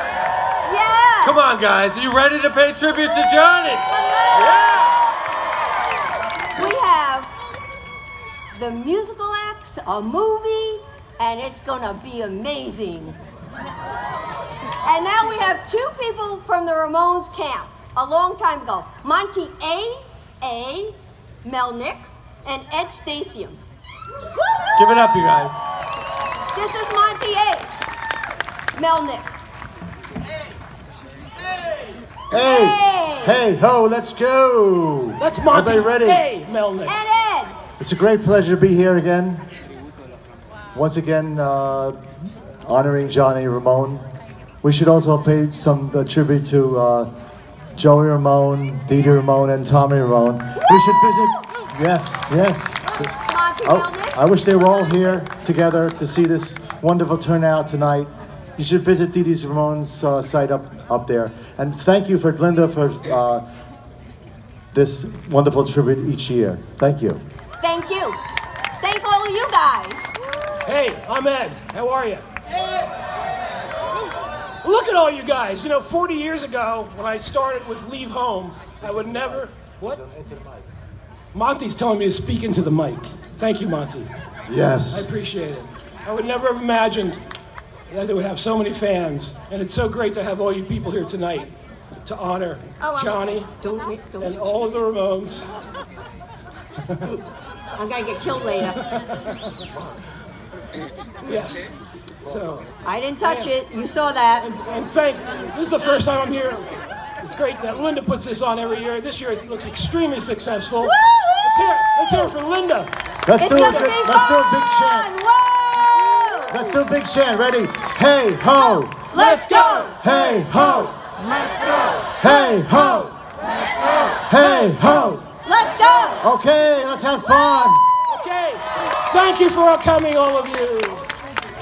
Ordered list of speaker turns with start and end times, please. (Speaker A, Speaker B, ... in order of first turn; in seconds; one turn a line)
Speaker A: 0.6-1.4
Speaker B: 1.2-3.9
Speaker A: 3.9-5.2
Speaker B: 4.4-4.7
Speaker A: 6.5-7.3
Speaker A: 8.5-13.2
Speaker A: 14.8-23.6
Speaker A: 24.3-25.0
Speaker B: 24.8-25.6
Speaker A: 26.5-27.7
Speaker A: 28.7-29.3
Speaker C: 32.3-36.2
Speaker A: 32.3-33.4
Speaker D: 35.2-37.0
Speaker A: 36.9-37.5
Speaker C: 37.8-39.4
Speaker C: 40.7-42.0
Speaker C: 42.6-44.0
Speaker C: 44.6-47.1
Speaker C: 47.8-53.1
Speaker A: 50.6-51.4
Speaker A: 52.9-54.2
Speaker C: 53.6-63.4
Speaker C: 64.7-67.2
Speaker A: 67.6-68.2
Speaker A: 68.8-70.1
Speaker D: 70.6-72.2
Speaker D: 74.6-80.0
Speaker C: 80.1-80.5
Speaker D: 81.3-84.1
Speaker C: 84.5-85.1
Speaker D: 84.9-87.2
Speaker D: 87.9-91.5
Speaker D: 92.0-93.5
Speaker A: 92.8-94.5
Speaker D: 94.2-95.5
Speaker A: 97.7-98.8
Speaker D: 98.8-99.4
Speaker D: 101.2-101.7
Speaker D: 102.2-102.7
Speaker A: 102.8-104.5
Speaker D: 103.2-103.5
Speaker D: 104.4-106.7
Speaker D: 107.2-112.9
Speaker A: 110.8-111.7
Speaker C: 113.2-115.1
Speaker A: 113.4-116.7
Speaker D: 113.5-113.9
Speaker C: 116.5-119.1
Speaker A: 118.6-119.9
Speaker D: 119.1-119.9
Speaker C: 120.0-120.9
Speaker C: 122.2-123.1
Speaker C: 124.3-125.2
Speaker A: 125.4-126.2
Speaker C: 126.2-127.8
Speaker D: 128.1-131.0